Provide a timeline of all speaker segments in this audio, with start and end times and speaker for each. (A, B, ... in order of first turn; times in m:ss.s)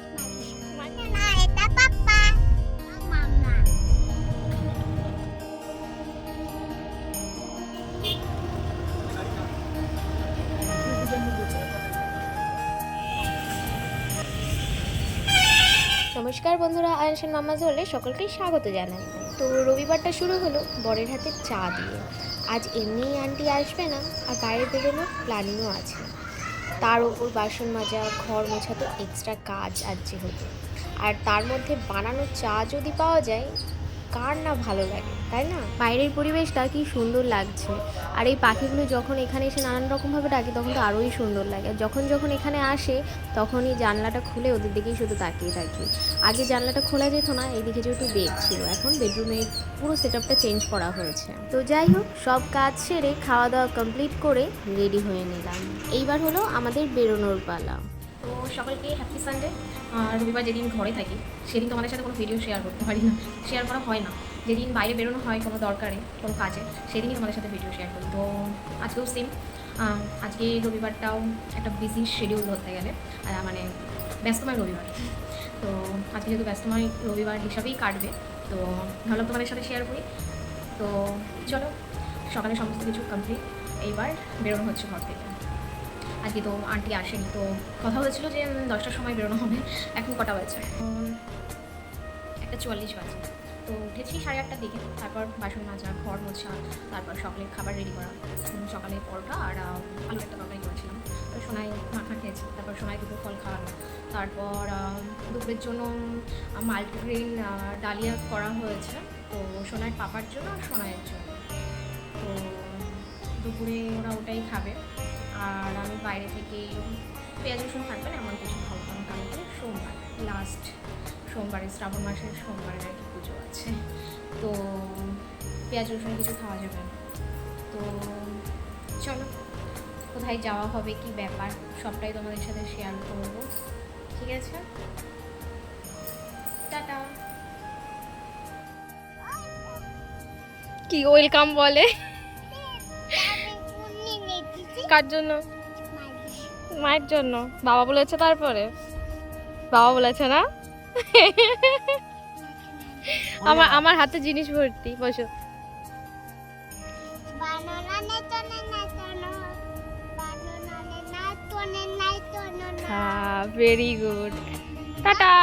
0:00.1-0:03.6 A
0:16.1-0:22.0 B
0:22.5-0:26.1 B
0:26.8-0:30.5 B
0:31.0-0:33.5 B
0:34.1-0:57.8 B
0:58.2-1:08.3 C
1:08.8-1:09.3 C
1:09.8-1:13.6 C
1:14.2-1:20.0 C
1:20.8-1:21.7 C
1:22.3-1:25.3 C
1:26.2-1:31.1 C
1:32.4-1:45.9 C
1:46.6-1:51.4 C
1:52.2-1:54.8 C
1:55.4-2:00.7 C
2:01.3-2:03.8 C
2:04.4-2:07.0 C
2:07.7-2:08.4 C
2:09.0-2:09.3 C
2:10.1-2:13.5 C
2:14.2-2:14.6 C
2:16.7-2:17.1 C
2:19.2-2:19.8 A
2:20.9-2:21.8 C
2:22.5-2:24.9 A
2:25.0-2:25.4 C
2:25.9-2:26.5 A
2:26.8-2:28.7 C
2:29.7-2:30.4 C
2:32.4-2:33.0 A
2:33.4-2:35.3 C
2:37.3-2:39.4 A
2:40.2-2:43.2 A
2:42.9-2:44.3 C
2:44.8-2:45.2 A
2:45.0-2:45.3 C